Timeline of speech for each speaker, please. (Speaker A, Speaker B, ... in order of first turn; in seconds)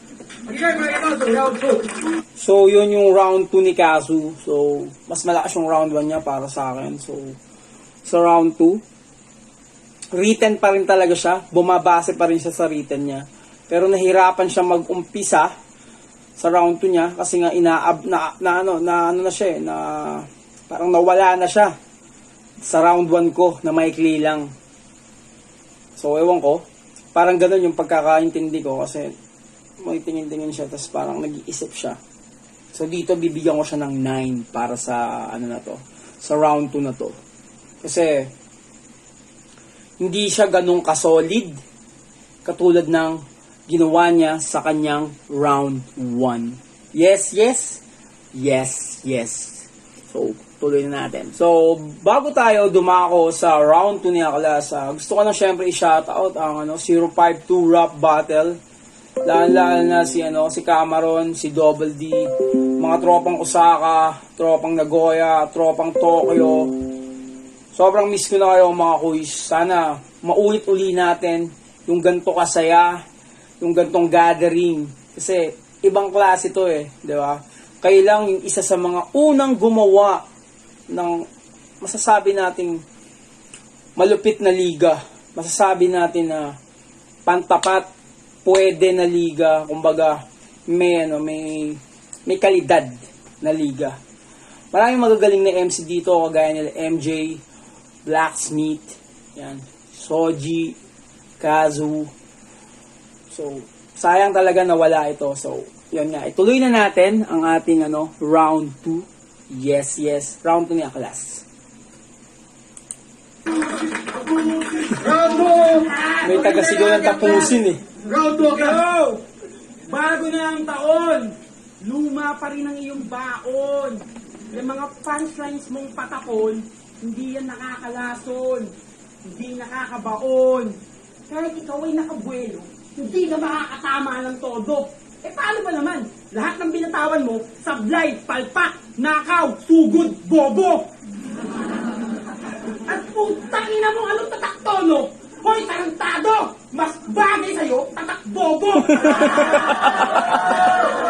Speaker A: 0.5-1.8, 114.7-115.8, 118.1-118.8
Speaker B: 2.4-7.4, 8.0-8.8, 10.1-15.5, 16.4-21.7, 22.6-24.5, 26.0-26.6, 27.1-29.1, 29.8-32.0, 32.7-37.1, 37.8-38.3, 40.0-41.6, 42.4-47.8, 48.3-58.6, 59.2-66.7, 67.7-73.0, 73.6-80.2, 80.9-81.2, 81.8-82.8, 84.0-86.5, 87.2-87.9, 88.4-94.0, 94.7-97.4, 98.0-100.8, 101.4-102.1, 103.3-111.4, 116.2-117.8, 148.9-150.5
Speaker C: 115.1-117.5, 118.4-119.2, 119.9-128.7, 129.2-130.8, 131.3-140.8, 142.9-149.7